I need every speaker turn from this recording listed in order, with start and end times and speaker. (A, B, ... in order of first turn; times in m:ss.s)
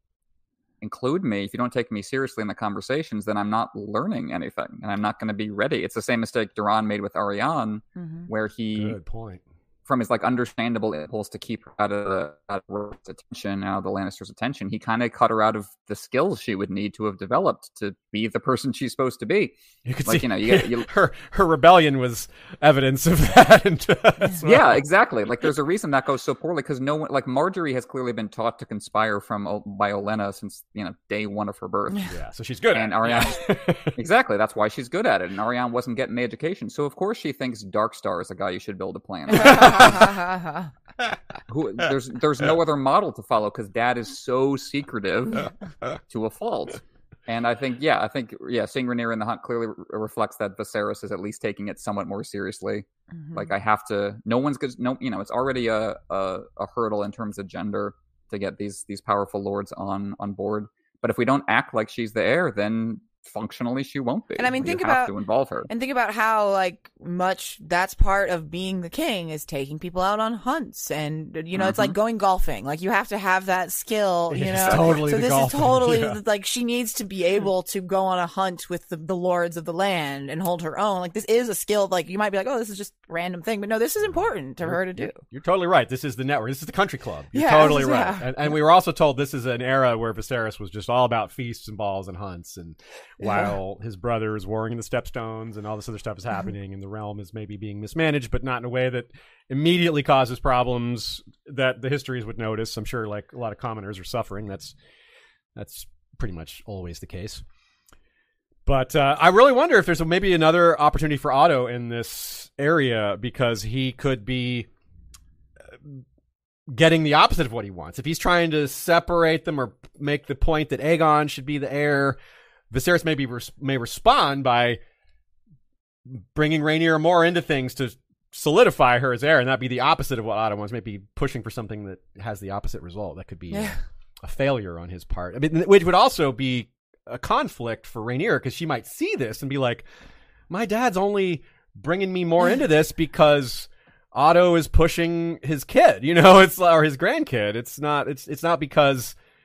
0:00.8-0:09.0 A
0:08.0-0:08.3 B
0:08.8-0:09.4 C
0:09.9-0:20.9 A
0:19.8-0:24.8 C
0:24.4-0:32.1 A
0:32.1-0:33.9 C
0:32.7-0:40.2 A
0:39.4-0:40.5 B
0:41.5-1:05.7 A
1:04.4-1:05.1 B
1:05.7-1:25.2 B
1:11.6-1:12.0 A
1:14.3-1:16.2 C
1:24.1-1:44.7 C
1:27.3-1:28.5 B
1:45.6-1:47.4 C
1:48.6-1:54.7 C
1:55.6-1:56.0 C
1:56.7-2:02.2 C
2:02.7-2:04.8 C
2:06.0-2:19.8 C
2:13.5-2:13.8 B
2:20.5-2:29.2 C